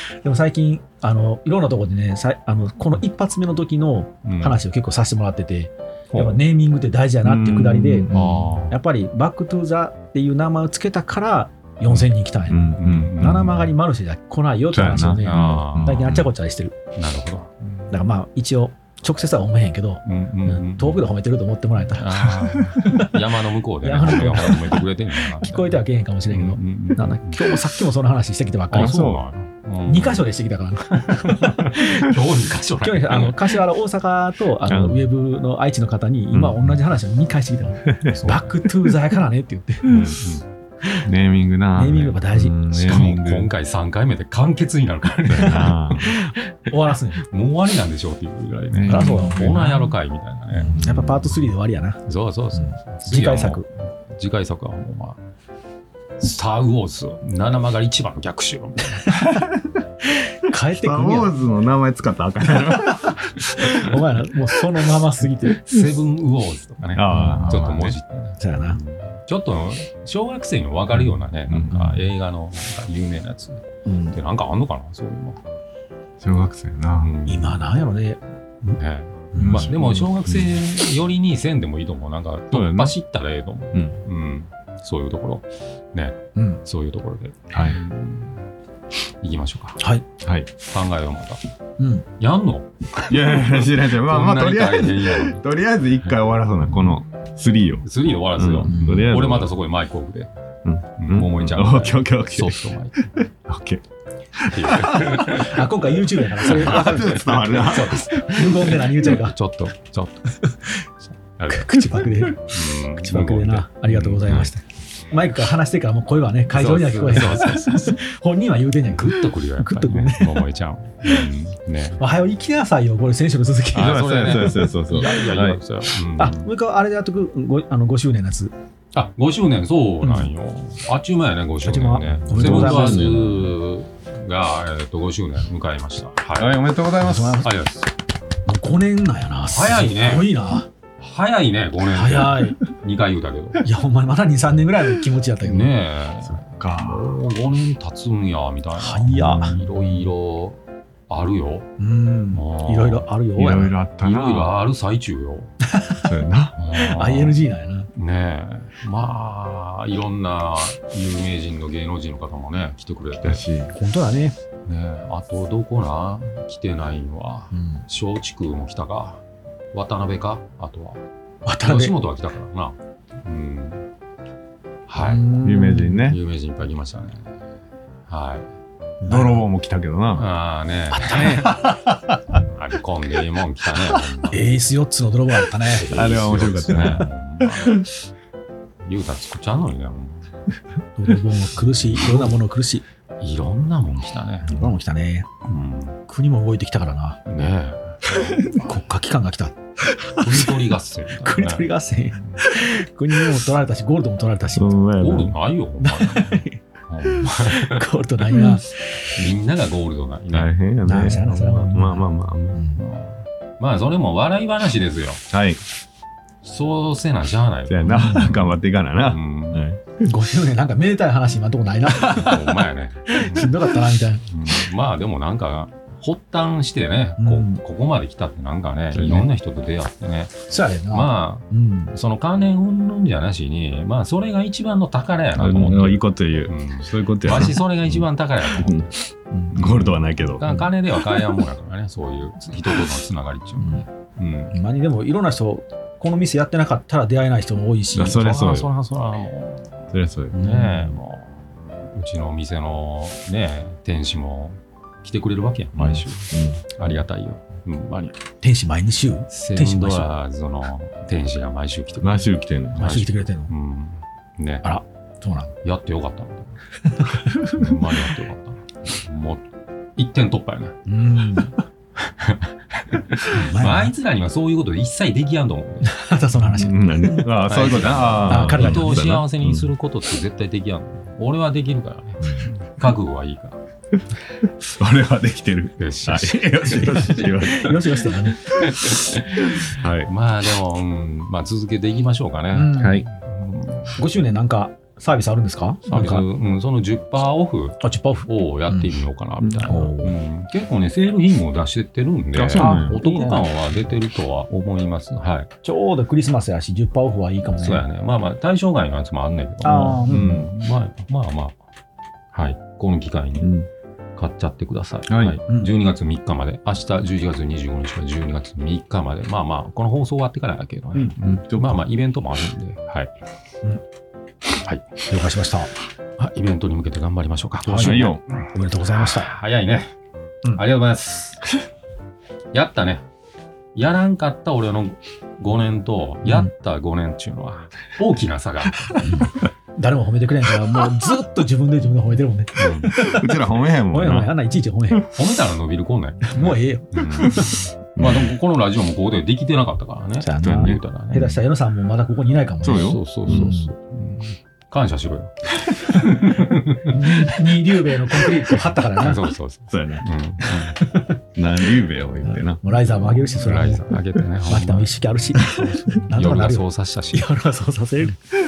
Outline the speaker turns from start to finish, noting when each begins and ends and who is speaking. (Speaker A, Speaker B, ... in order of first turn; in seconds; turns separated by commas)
Speaker A: 0.2-8.1, Speaker B: 4.2-4.6, Speaker C: 7.2-8.6, Speaker B: 8.1-8.8, Speaker A: 8.7-16.8, Speaker C: 12.5-13.5, Speaker B: 12.8-13.7, Speaker C: 14.7-16.3, Speaker B: 15.1-16.2, Speaker B: 17.0-17.9, Speaker A: 17.9-23.1, Speaker B: 20.1-21.1, Speaker B: 21.9-27.6, Speaker A: 23.8-29.1, Speaker B: 28.7-30.2, Speaker C: 28.7-29.2, Speaker A: 29.9-31.9, Speaker B: 31.2-33.6, Speaker A: 32.8-40.0, Speaker C: 34.6-35.1, Speaker C: 36.3-36.8, Speaker B: 38.0-38.5, Speaker B: 39.9-40.5, Speaker C: 41.0-43.5, Speaker A: 41.8-42.7, Speaker B: 42.8-46.1, Speaker C: 45.3-46.1, Speaker A: 46.1-47.2, Speaker B: 47.1-50.8, Speaker C: 48.7-49.5, Speaker A: 48.9-49.9, Speaker A: 50.6-52.0, Speaker C: 50.7-51.4, Speaker B: 52.1-55.2, Speaker A: 52.6-53.7, Speaker B: 56.2-59.1, Speaker A: 60.5-61.4, Speaker C: 60.7-63.8, Speaker A: 63.6-65.6, Speaker B: 65.6-75.4, Speaker C: 66.9-68.0, Speaker A: 67.2-67.4, Speaker A: 68.4-68.8, Speaker C: 70.9-72.0, Speaker A: 73.9-74.2, Speaker C: 76.2-77.1, Speaker B: 76.9-77.6, Speaker A: 77.3-78.8, Speaker B: 78.8-88.4, Speaker A: 79.3-79.6, Speaker C: 79.4-80.6, Speaker C: 82.5-83.0, Speaker C: 83.7-84.0, Speaker C: 87.5-87.8, Speaker B: 89.2-89.8, Speaker C: 90.2-90.5, Speaker B: 90.6-91.4, Speaker A: 91.8-92.0, Speaker B: 92.2-92.7, Speaker C: 93.1-99.5, Speaker B: 93.8-95.4, Speaker B: 97.8-100.3, Speaker A: 98.7-99.1, Speaker C: 100.7-102.6, Speaker B: 101.0-103.1, Speaker C: 103.2-103.8, Speaker C: 104.4-105.4, Speaker B: 104.5-105.8, Speaker A: 105.3-109.4, Speaker C: 106.4-108.6, Speaker B: 106.4-110.3, Speaker A: 110.4-110.8, Speaker B: 111.4-114.4, Speaker A: 111.5-120.5, Speaker C: 114.2-114.5, Speaker B: 116.5-118.0, Speaker B: 118.9-122.0, Speaker A: 122.0-125.3, Speaker C: 123.8-125.6, Speaker B: 123.8-126.4, Speaker A: 126.2-128.5, Speaker B: 128.9-136.6, Speaker A: 130.0-130.3, Speaker A: 131.7-133.2, Speaker C: 132.2-133.6, Speaker C: 136.4-137.5, Speaker A: 137.0-137.5, Speaker B: 137.4-137.9, Speaker A: 138.5-140.7, Speaker B: 139.5-140.3, Speaker B: 141.0-143.6, Speaker A: 141.9-142.6, Speaker A: 143.6-145.7, Speaker B: 145.4-151.7, Speaker C: 146.3-147.1, Speaker A: 148.8-149.6, Speaker A: 151.8-153.7, Speaker B: 152.3-153.1, Speaker C: 153.4-154.5, Speaker B: 154.0-155.5, Speaker A: 155.7-156.1, Speaker C: 156.0-156.6, Speaker B: 156.6-157.4, Speaker A: 156.8-157.9, Speaker B: 157.9-163.4, Speaker C: 163.2-163.7, Speaker A: 163.8-164.3, Speaker B: 164.7-169.2, Speaker A: 167.5-167.8, Speaker B: 169.7-171.0, Speaker A: 171.5-171.9, Speaker B: 171.6-173.9, Speaker B: 174.9-175.3, Speaker A: 175.1-176.0, Speaker C: 175.4-176.2, Speaker B: 176.0-177.3, Speaker B: 178.1-178.5, Speaker A: 179.0-179.4, Speaker C: 179.1-180.3, Speaker B: 180.1-181.4, Speaker A: 180.9-181.9, Speaker B: 182.5-184.5, Speaker A: 184.3-185.9, Speaker B: 185.7-187.9, Speaker C: 185.9-187.9, Speaker B: 188.8-190.3, Speaker A: 191.0-192.8, Speaker B: 191.8-192.3, Speaker B: 193.2-194.5, Speaker A: 194.5-195.3, Speaker B: 195.5-196.0, Speaker A: 196.1-197.2, Speaker B: 197.3-198.6, Speaker A: 198.3-200.5, Speaker B: 200.2-202.4, Speaker A: 201.2-204.7, Speaker C: 204.6-205.4, Speaker B: 205.0-207.8, Speaker A: 205.8-208.8, Speaker B: 209.2-210.5, Speaker C: 210.3-212.6, Speaker A: 210.9-212.8, Speaker B: 212.8-215.2, Speaker C: 215.3-215.6, Speaker B: 216.4-218.4, Speaker C: 217.7-220.0, Speaker A: 217.9-218.3, Speaker B: 219.0-219.6, Speaker A: 220.0-224.3, Speaker B: 222.1-223.5, Speaker B: 224.3-230.3, Speaker A: 227.2-227.6, Speaker C: 228.9-229.3, Speaker A: 230.5-231.9, Speaker B: 230.9-238.9, Speaker C: 235.3-238.9, Speaker A: 239.3-239.6, Speaker C: 239.5-240.4, Speaker B: 239.5-244.6, Speaker A: 244.5-248.2, Speaker C: 247.9-248.7, Speaker B: 248.0-258.2, Speaker C: 249.9-250.4, Speaker A: 250.4-250.9, Speaker C: 255.8-256.6, Speaker A: 258.4-260.1, Speaker B: 259.3-264.8, Speaker C: 262.0-262.9, Speaker A: 262.8-263.5, Speaker A: 264.6-265.5, Speaker B: 265.6-266.6, Speaker A: 267.0-267.3, Speaker B: 267.5-269.4, Speaker B: 270.0-270.8, Speaker A: 270.9-271.6, Speaker B: 272.0-275.9, Speaker A: 273.3-273.9, Speaker A: 275.9-277.2, Speaker C: 276.4-279.7, Speaker B: 277.4-283.6, Speaker A: 278.3-278.9, Speaker C: 284.4-287.9, Speaker B: 285.8-286.5, Speaker A: 286.6-288.3, Speaker B: 287.2-288.0, Speaker B: 288.5-294.0, Speaker C: 288.6-290.1, Speaker A: 292.5-292.9, Speaker C: 292.8-293.1, Speaker A: 294.0-296.3, Speaker B: 295.9-305.5, Speaker A: 297.8-298.9, Speaker C: 299.4-299.8, Speaker A: 299.7-300.1, Speaker C: 302.3-303.0, Speaker A: 302.6-303.5, Speaker A: 305.6-307.8, Speaker B: 307.6-311.6, Speaker A: 309.6-310.4, Speaker C: 310.1-310.5, Speaker B: 312.3-313.5, Speaker C: 313.4-313.7, Speaker B: 314.2-323.1, Speaker C: 315.1-315.4, Speaker C: 321.2-321.8, Speaker B: 324.6-325.0, Speaker A: 325.1-325.7, Speaker B: 326.2-329.9, Speaker C: 327.7-328.2, Speaker A: 327.7-329.3, Speaker B: 330.5-331.5, Speaker B: 332.5-333.1, Speaker B: 333.8-339.0, Speaker A: 339.1-345.0, Speaker B: 342.6-342.9, Speaker C: 343.1-344.4, Speaker B: 345.1-351.4, Speaker A: 346.3-347.5, Speaker C: 347.1-348.3, Speaker A: 350.2-353.7, Speaker C: 350.4-350.8, Speaker C: 352.6-353.5, Speaker B: 352.6-357.0, Speaker A: 356.9-359.2, Speaker B: 359.0-360.8, Speaker C: 359.7-360.1, Speaker A: 360.8-361.1, Speaker C: 361.4-363.5, Speaker A: 362.3-363.9, Speaker B: 363.2-365.0, Speaker A: 364.5-368.2, Speaker B: 365.6-367.3